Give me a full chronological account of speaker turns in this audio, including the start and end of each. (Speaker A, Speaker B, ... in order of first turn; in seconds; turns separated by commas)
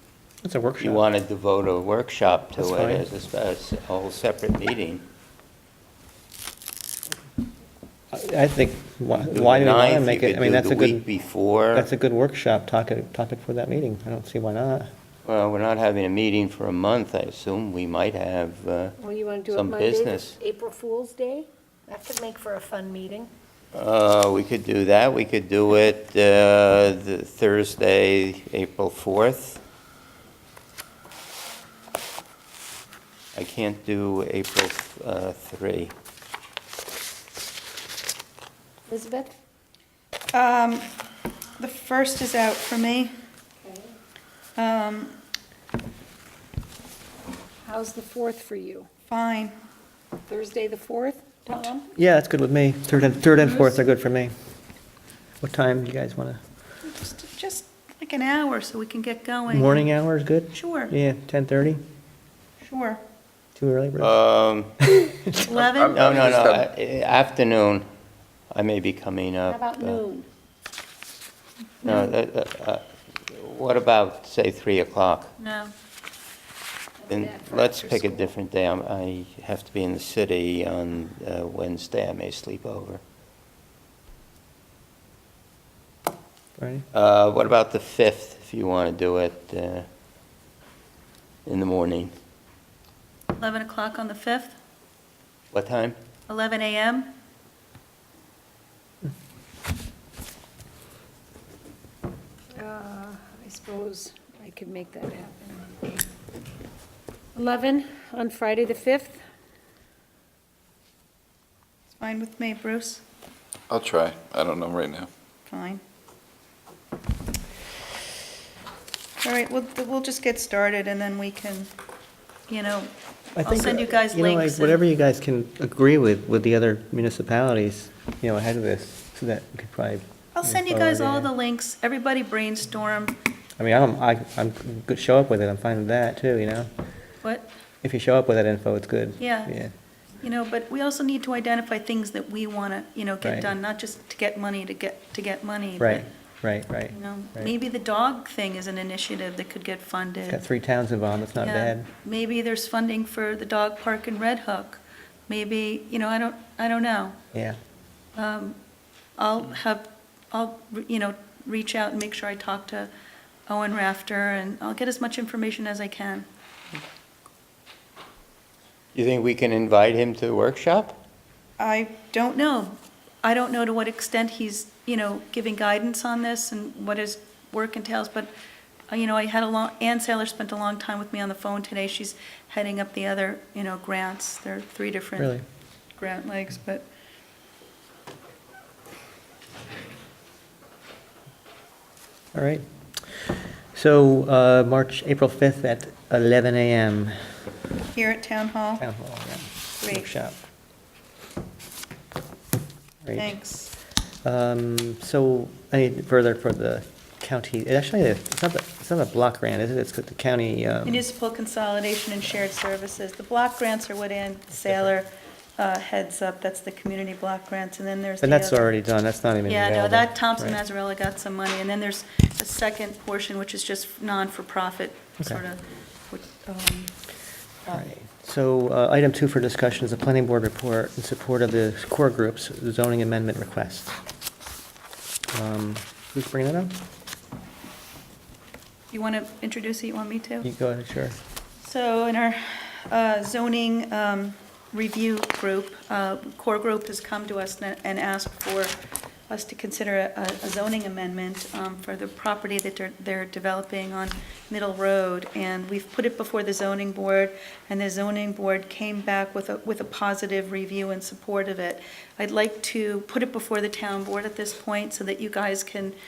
Speaker A: 0.4-1.0, Speaker B: 0.8-5.0, Speaker A: 2.6-3.0, Speaker A: 8.1-11.1, Speaker B: 9.2-11.9, Speaker A: 11.7-14.9, Speaker B: 15.2-19.0, Speaker C: 19.0-23.3, Speaker B: 19.5-20.4, Speaker B: 23.7-29.6, Speaker B: 33.3-35.9, Speaker C: 38.9-39.3, Speaker D: 40.3-40.9, Speaker D: 41.6-43.1, Speaker D: 44.6-45.2, Speaker C: 47.7-48.9, Speaker D: 49.1-49.5, Speaker C: 50.3-51.7, Speaker D: 51.5-51.8, Speaker A: 51.9-54.3, Speaker A: 55.4-56.4, Speaker D: 56.8-59.9, Speaker A: 59.5-61.8, Speaker D: 60.5-60.9, Speaker D: 62.6-63.0, Speaker A: 63.6-64.2, Speaker B: 64.0-64.8, Speaker A: 64.9-65.2, Speaker D: 65.4-65.9, Speaker E: 65.5-66.7, Speaker B: 65.8-67.9, Speaker B: 68.5-70.0, Speaker C: 69.5-70.3, Speaker B: 71.8-75.3, Speaker D: 71.8-72.1, Speaker D: 75.4-75.7, Speaker C: 77.1-77.5, Speaker B: 77.1-83.0, Speaker A: 86.6-86.9, Speaker B: 86.9-89.9, Speaker B: 91.5-92.1, Speaker D: 93.4-94.5, Speaker B: 95.5-96.0, Speaker D: 96.3-97.1, Speaker C: 102.6-105.6, Speaker C: 107.3-109.2, Speaker D: 112.0-113.0, Speaker E: 113.7-115.1, Speaker D: 115.5-115.8, Speaker D: 119.2-121.7, Speaker D: 122.5-124.8, Speaker A: 123.4-131.3, Speaker D: 130.3-133.2, Speaker A: 133.6-136.7, Speaker A: 137.8-139.7, Speaker D: 139.2-139.6, Speaker D: 140.2-146.1, Speaker A: 143.2-143.5, Speaker A: 145.8-147.5, Speaker D: 146.9-150.4, Speaker A: 150.3-151.9, Speaker D: 151.4-157.2, Speaker D: 158.2-158.6, Speaker D: 159.2-162.9, Speaker D: 163.5-166.3, Speaker B: 168.9-171.0, Speaker D: 171.6-178.3, Speaker D: 178.9-185.4, Speaker A: 185.2-185.4, Speaker D: 186.0-186.8, Speaker A: 192.3-197.4, Speaker D: 197.9-198.8, Speaker A: 198.8-200.4, Speaker D: 199.8-200.1, Speaker A: 203.0-203.3, Speaker D: 203.2-203.7, Speaker A: 204.2-211.1, Speaker D: 210.8-218.7, Speaker A: 214.6-214.9, Speaker A: 218.2-220.6, Speaker D: 219.5-225.6, Speaker D: 226.1-226.9, Speaker A: 227.7-234.0, Speaker A: 235.3-236.8, Speaker D: 238.9-240.5, Speaker A: 240.4-241.2, Speaker D: 241.6-248.8, Speaker D: 249.3-265.9